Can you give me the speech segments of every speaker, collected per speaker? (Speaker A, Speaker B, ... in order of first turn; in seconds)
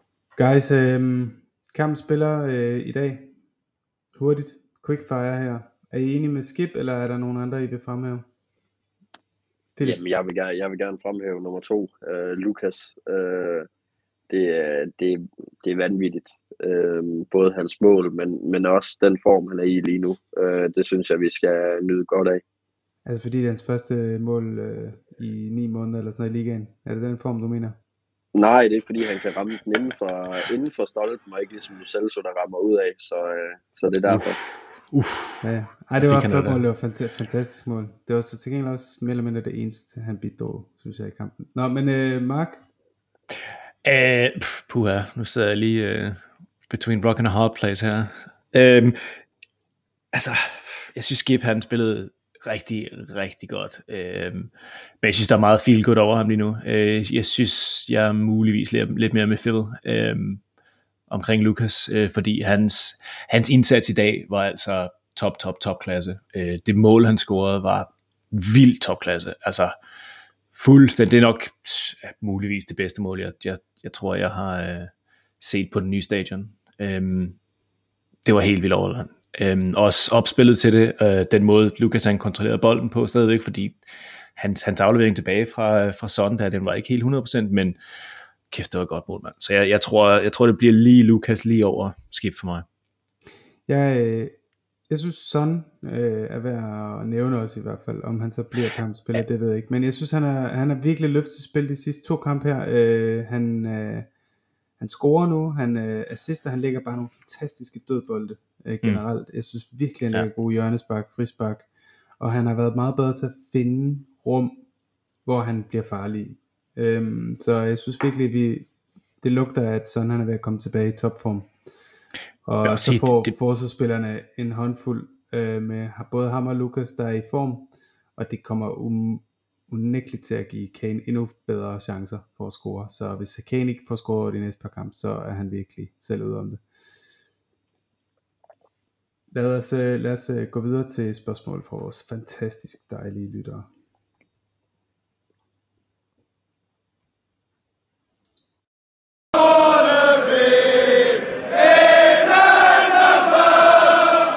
Speaker A: 0.3-3.3, 4.1-8.2, 23.1-27.8, 35.4-42.6, 93.7-94.4, 94.9-104.1, 104.8-111.7, 112.2-114.6, 115.2-118.7, 119.2-121.5, 122.5-136.6, 139.3-143.7
Speaker B: 9.8-13.7, 14.3-22.4, 28.3-34.4
Speaker C: 34.1-35.4, 36.0-36.6, 43.8-49.0, 50.1-60.4, 61.1-69.7, 70.5-77.4, 78.2-83.8, 84.3-87.8, 88.5-92.7, 122.6-123.3